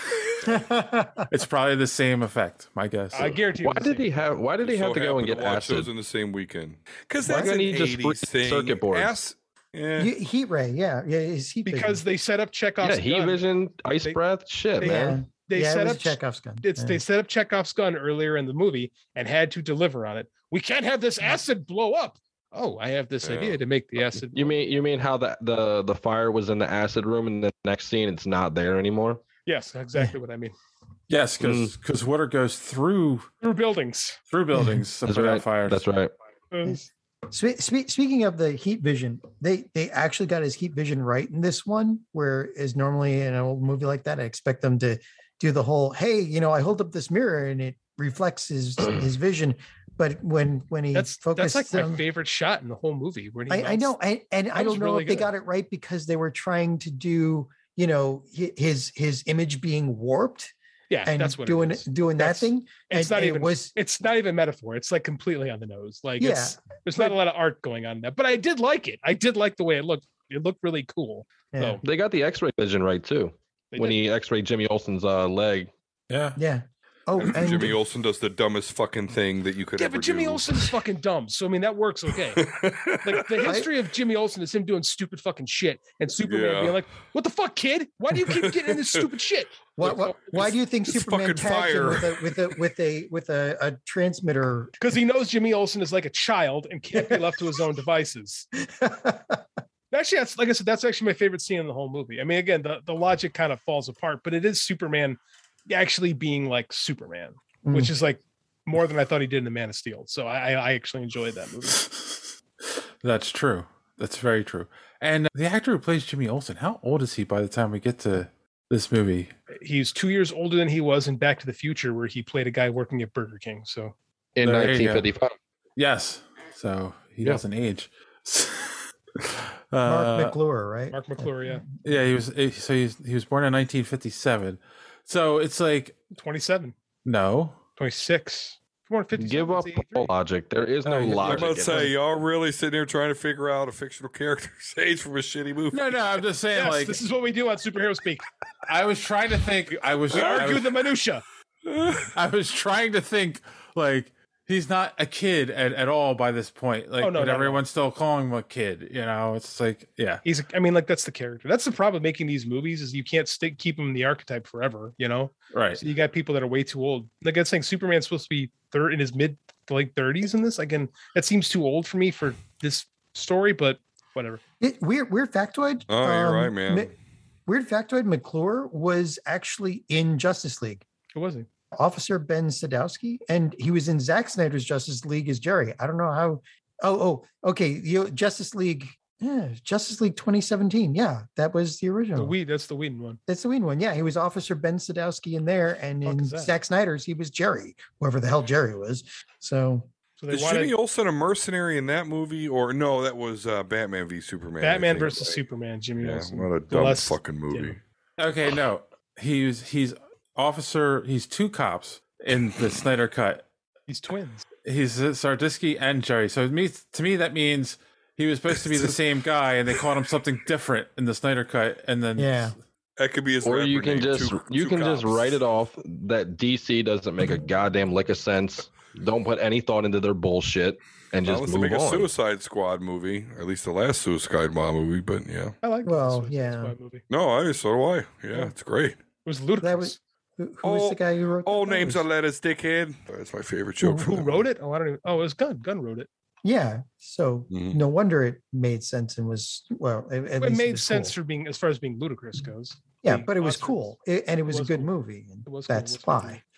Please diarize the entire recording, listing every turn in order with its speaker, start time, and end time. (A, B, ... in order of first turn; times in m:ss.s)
0:00.4-0:01.2 A
0:01.3-0:03.3 B
0:03.1-0:04.0 C
0:03.6-0:05.9 D
0:04.6-0:10.1 E
0:07.2-0:09.2 D
0:07.2-0:07.5 A
0:10.0-0:12.0 A
0:11.6-0:13.5 C
0:12.8-0:15.2 D
0:14.8-0:24.6 C
0:14.8-0:17.0 A
0:23.2-0:23.6 E
0:24.2-0:29.2 D
0:29.4-0:30.5 C
0:31.1-0:33.3 B
0:31.4-0:31.7 D
0:33.4-0:34.2 C
0:34.3-0:35.8 B
0:35.0-0:36.1 D
0:36.5-0:36.8 C
0:36.6-0:52.0 A
0:50.9-0:53.9 C
0:53.5-1:00.5 A
0:54.5-0:55.3 C
1:00.9-1:11.8 C
1:01.0-1:03.7 A
1:06.2-1:07.1 A
1:11.5-1:11.8 A
1:11.8-1:15.7 D
1:13.7-1:14.0 C
1:16.1-1:16.4 B
1:16.4-1:17.8 A
1:17.2-1:20.7 E
1:19.8-1:22.4 C
1:22.3-1:23.5 E
1:23.0-1:29.9 C
1:26.2-1:26.8 E
1:28.5-1:28.9 E
1:29.8-1:34.7 A
1:30.1-1:32.3 E
1:34.8-1:38.5 C
1:36.9-1:37.4 A
1:38.6-1:39.4 A
1:39.9-1:51.8 C
1:47.6-1:47.9 A
1:51.8-1:52.2 B
1:53.0-1:59.3 B
1:59.6-2:03.9 C
2:04.4-2:05.3 D
2:04.4-2:05.1 B
2:05.8-2:10.4 B
2:09.8-2:11.6 A
2:10.9-2:11.6 C
2:11.8-2:15.9 B
2:16.1-2:16.7 C
2:17.0-2:17.6 B
2:17.8-2:20.1 C
2:19.2-2:21.9 D
2:20.8-2:21.5 B
2:21.2-2:25.9 E
2:25.7-2:27.0 B
2:26.5-2:28.2 C
2:28.7-2:30.7 B
2:30.1-2:31.2 C
2:30.1-2:30.4 E
2:31.6-2:32.1 E
2:32.1-2:40.2 B
2:37.0-2:37.6 C
2:40.2-2:54.4 C
2:45.5-2:45.8 B
2:54.6-2:56.9 A
2:55.9-2:56.9 E
2:57.5-3:00.8 A
3:01.1-3:01.5 C
3:01.7-3:12.3 A
3:12.2-3:13.2 C
3:13.3-3:19.9 A
3:16.0-3:16.5 C
3:20.2-3:20.7 C
3:20.3-3:25.4 E
3:24.6-3:27.8 C
3:26.0-3:27.8 E
3:28.2-3:33.4 B
3:33.9-3:34.4 C
3:34.6-3:42.6 B
3:42.2-3:42.6 A
3:43.0-3:45.3 E
3:43.4-3:52.1 D
3:51.2-3:55.5 E
3:55.6-3:57.0 C
3:55.8-3:56.7 A
3:57.1-3:59.0 E
3:59.2-4:00.0 C
3:59.6-4:02.0 A
4:00.6-4:04.4 E
4:03.8-4:06.1 C
4:06.4-4:11.1 A
4:07.5-4:07.8 E
4:10.4-4:13.9 C
4:13.0-4:16.4 A
4:14.5-4:14.9 C
4:15.4-4:16.4 C